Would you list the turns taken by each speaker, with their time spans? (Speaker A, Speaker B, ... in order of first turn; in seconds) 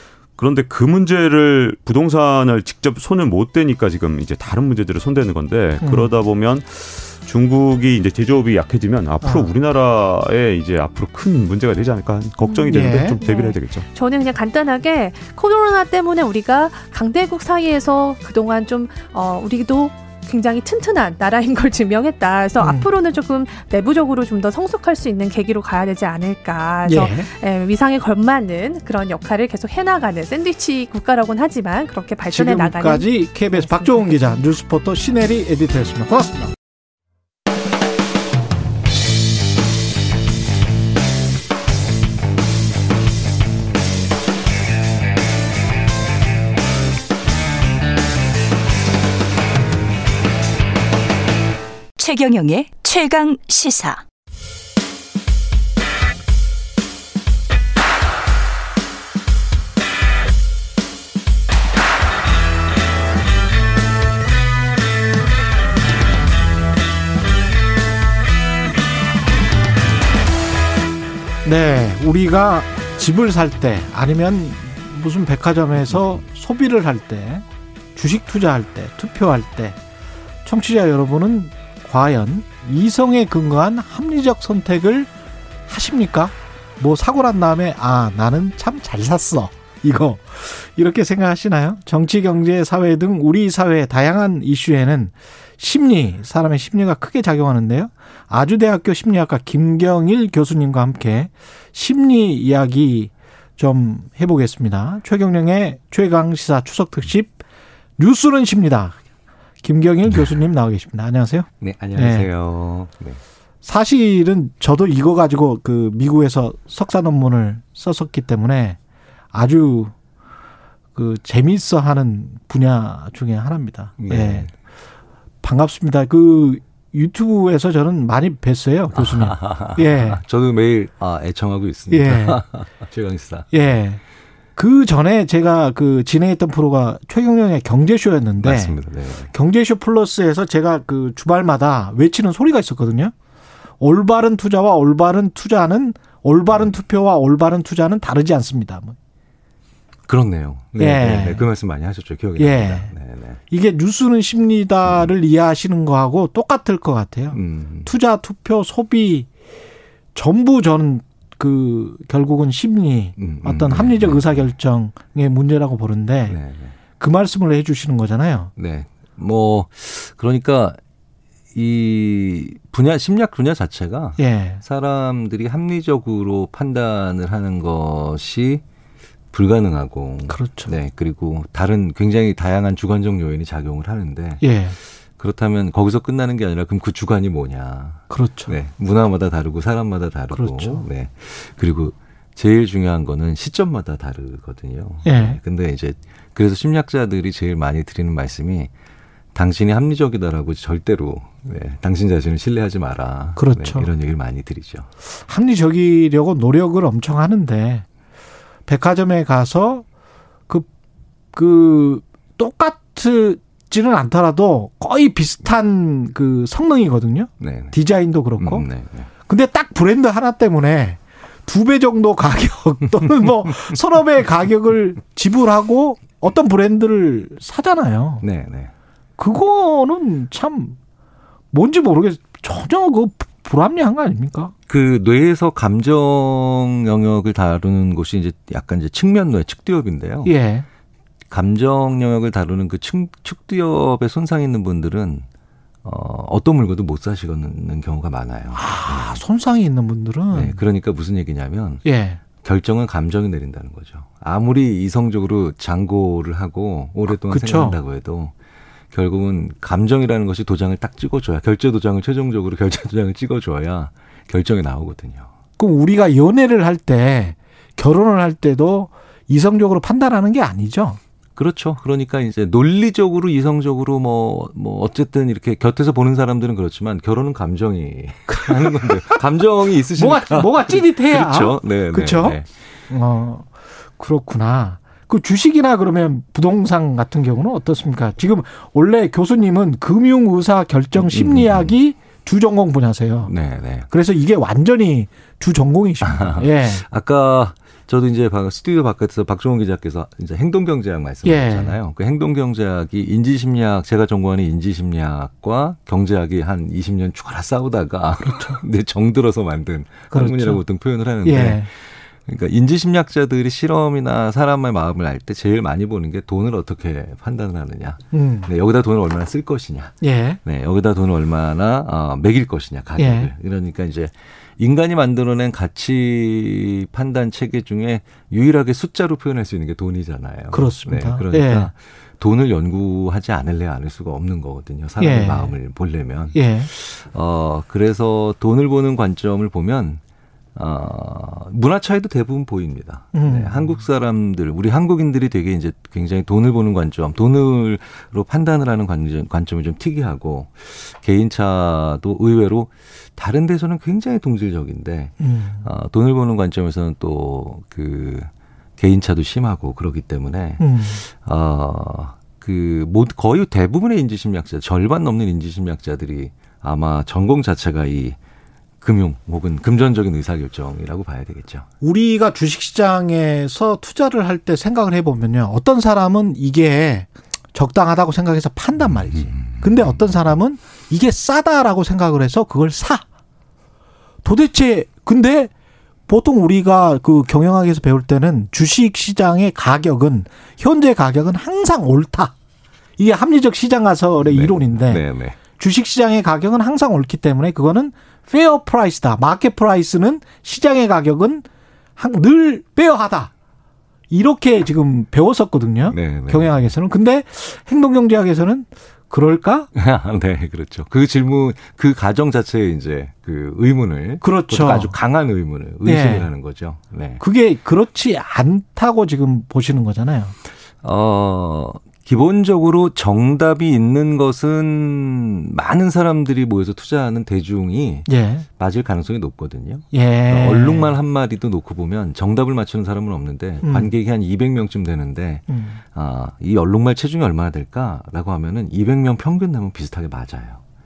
Speaker A: 0.4-13.8
Speaker B: 5.8-6.1, 9.2-9.5, 12.7-13.2, 22.6-22.9, 26.8-27.3, 32.3-36.5, 71.4-79.8, 80.4-85.1, 85.7-107.4, 108.0-109.0, 109.6-112.3, 113.6-118.8, 119.3-119.9, 120.9-124.5, 125.4-130.2, 131.9-132.4, 133.5-134.0, 134.6-138.8, 139.3-143.1, 143.8-149.0, 150.8-151.5, 152.4-152.9, 153.5-159.3, 160.1-166.4, 167.0-168.5, 174.2-174.6, 180.3-180.7, 184.4-184.8, 188.1-188.5, 190.3-190.8, 195.0-195.4, 203.3-203.9, 205.2-207.8, 208.7-209.8, 211.3-218.7, 219.3-228.2, 229.2-230.8, 231.5-234.5, 240.2-240.7, 248.5-250.6, 251.8-252.2, 257.1-257.8, 265.6-271.0, 278.3-278.9, 280.0-282.4, 282.9-293.3, 293.9-296.8, 301.2-301.8, 308.2-308.6, 310.1-310.6, 311.2-311.7, 318.1-318.5, 320.0-320.4, 323.0-323.3, 330.5-331.7, 335.0-335.6, 336.3-336.7, 343.1-343.7, 355.2-355.6, 360.6-361.0, 371.8-383.0, 384.2-385.5, 386.1-392.3, 393.0-395.0, 395.6-401.4, 402.0-403.3, 404.1-409.7, 414.2-414.9, 415.8-416.3, 417.2-420.3, 428.1-428.4, 429.9-430.9, 433.6-433.9, 435.5-435.8
Speaker C: 12.4-34.4
Speaker D: 52.0-54.0
Speaker E: 111.6-113.2, 124.0-124.5, 128.9-133.7, 138.4-139.3, 150.1-153.4, 157.3-157.9, 163.2-164.5, 166.3-166.7, 168.6-170.8, 171.5-178.6, 179.3-184.5, 185.2-198.7, 199.3-204.9, 217.4-217.8, 218.4-219.1, 228.2-228.7, 234.7-240.3, 241.3-245.3, 245.8-249.2, 250.3-251.8, 252.3-258.3, 258.9-265.3, 271.4-282.5, 290.9-291.7, 293.2-293.9, 296.0-340.0, 340.5-368.2, 368.8-371.7, 378.9-380.0, 394.2-395.4, 405.9-406.6, 409.7-417.2, 420.8-440.6